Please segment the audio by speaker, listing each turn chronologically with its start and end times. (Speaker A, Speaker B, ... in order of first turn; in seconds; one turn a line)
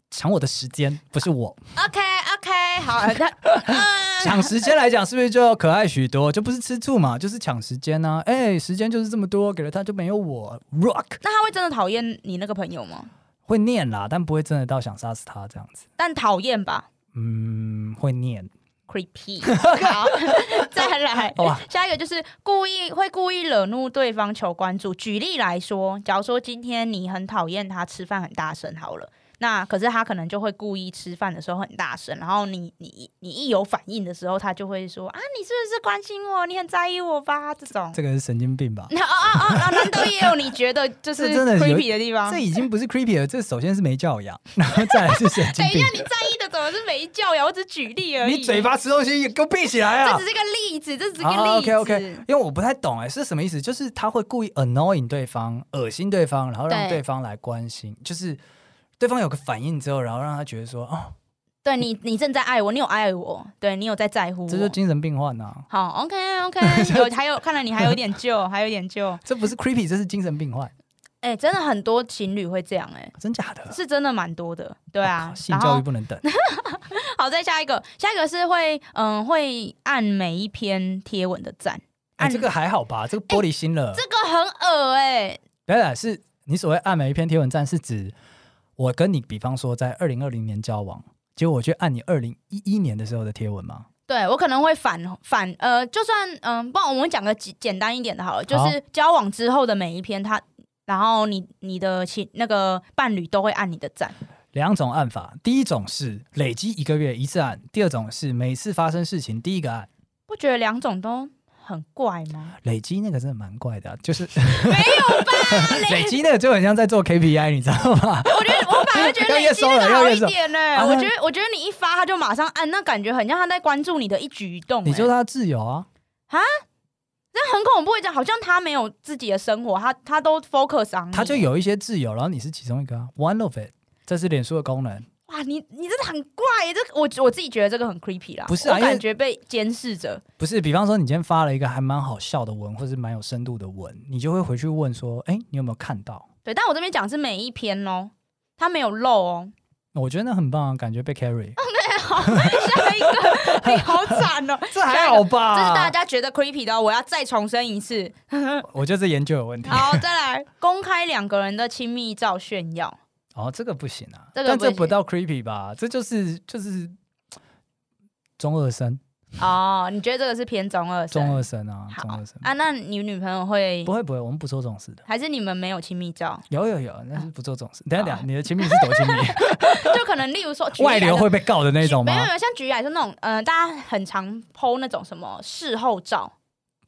Speaker A: 0.1-1.6
Speaker B: 1.8-4.6
Speaker A: 3.6-11.2
Speaker B: 11.2-13.1
Speaker A: 13.5-15.8
Speaker B: 16.0-16.9
Speaker A: 17.1-18.5
Speaker B: 18.9-38.0
Speaker A: 19.5-21.6
Speaker A: 37.9-40.3
Speaker B: 38.9-42.4
Speaker A: 41.1-46.1
Speaker B: 44.9-48.7
Speaker A: 48.2-50.2
Speaker B: 50.0-52.2
Speaker A: 51.2-58.4
Speaker B: 56.7-57.0
Speaker A: 59.0-61.1
Speaker B: 61.6-64.8
Speaker A: 64.5-65.7
Speaker B: 65.7-69.2
Speaker A: 66.6-67.2
Speaker A: 69.2-70.7
Speaker B: 71.2-73.1
Speaker A: 73.2-73.8
Speaker B: 73.7-82.5
Speaker A: 75.0-76.2
Speaker A: 82.2-84.0
Speaker B: 83.9-85.4
Speaker A: 85.7-88.1
Speaker A: 88.8-93.9
Speaker B: 94.1-104.2
Speaker A: 98.5-98.8
Speaker A: 104.5-109.9
Speaker B: 110.3-112.6
Speaker A: 112.6-121.1
Speaker B: 114.6-116.2
Speaker B: 118.3-125.1
Speaker A: 124.8-125.9
Speaker B: 126.3-126.6
Speaker B: 127.3-131.5
Speaker A: 131.1-135.1
Speaker B: 135.3-140.2
Speaker A: 138.5-139.0
Speaker A: 140.4-146.3
Speaker B: 146.4-149.5
Speaker A: 149.9-151.6
Speaker B: 151.6-158.7
Speaker A: 152.3-155.9
Speaker A: 158.7-160.0
Speaker B: 159.7-163.0
Speaker A: 163.3-166.9
Speaker B: 164.3-164.9
Speaker A: 168.4-169.0
Speaker B: 169.4-173.9
Speaker A: 171.1-172.5
Speaker A: 173.9-175.0
Speaker B: 175.1-176.4
Speaker A: 176.5-180.0
Speaker B: 178.0-186.3
Speaker A: 180.8-182.3